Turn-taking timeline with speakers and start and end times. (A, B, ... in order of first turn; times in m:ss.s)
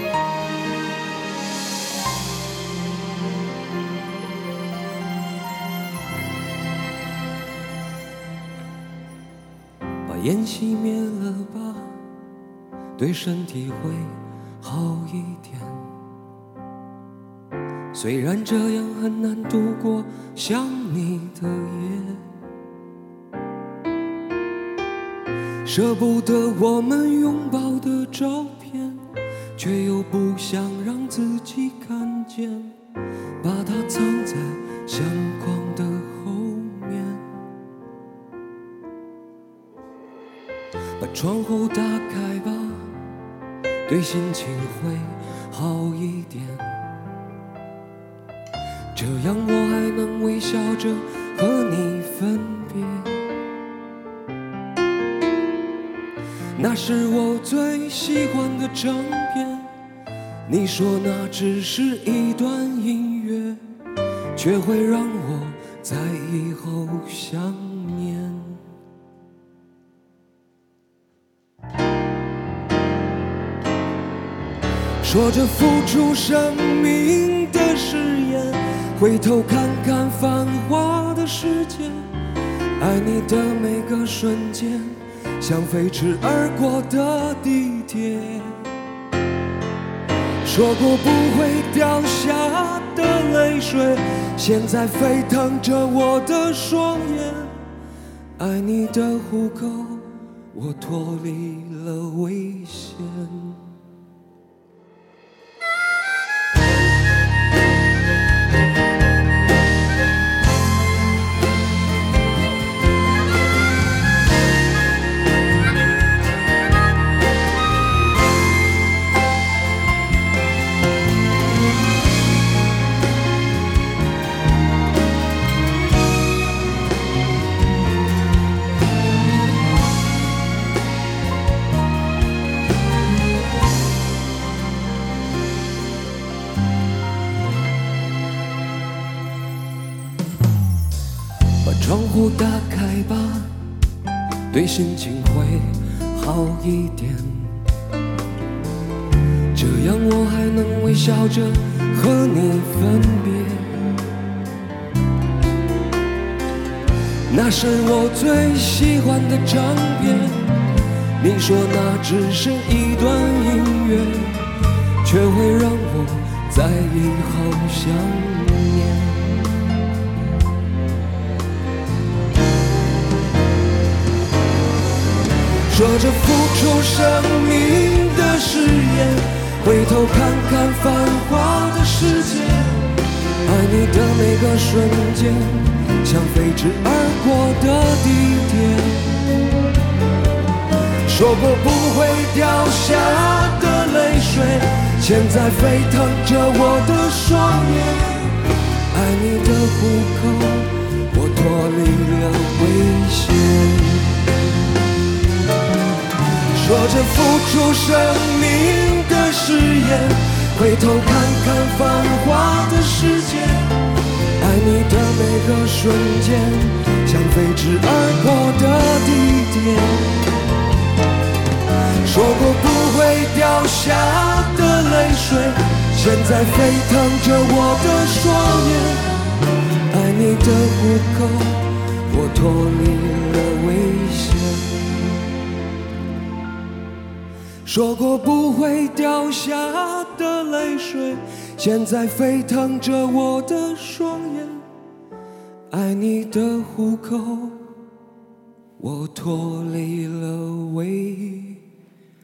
0:10.0-0:12.0 A
0:13.0-0:15.9 A
0:17.9-0:22.3 A
0:25.6-0:29.0 A
0:29.6-0:32.8 A
0:33.4-0:37.3 A
0:41.0-0:42.9 A
0:43.9-0:46.8 A
0:48.9-0:53.2 A
0:56.6-0:59.7 A
1:00.5-1:03.6 A
1:04.4-1:08.6 A
1:15.0-1:22.1 A
1:22.8-1:28.6 A
1:30.4-1:37.5 A
1:38.4-1:43.6 A
2:21.6-2:23.5 A
2:24.5-2:27.6 A
2:29.5-2:34.0 A
2:37.3-2:40.5 A
2:41.2-2:44.4 A
2:45.0-2:49.5 A
2:55.7-3:02.8 A
3:03.5-3:09.2 A
3:11.1-3:18.3 A
3:18.9-3:24.2 A
3:26.5-3:33.7 A
3:34.4-3:40.2 A
3:42.0-3:49.1 A
3:49.9-3:54.9 A
3:57.6-4:04.6 A
4:05.7-4:07.6 A
4:08.8-4:11.6 A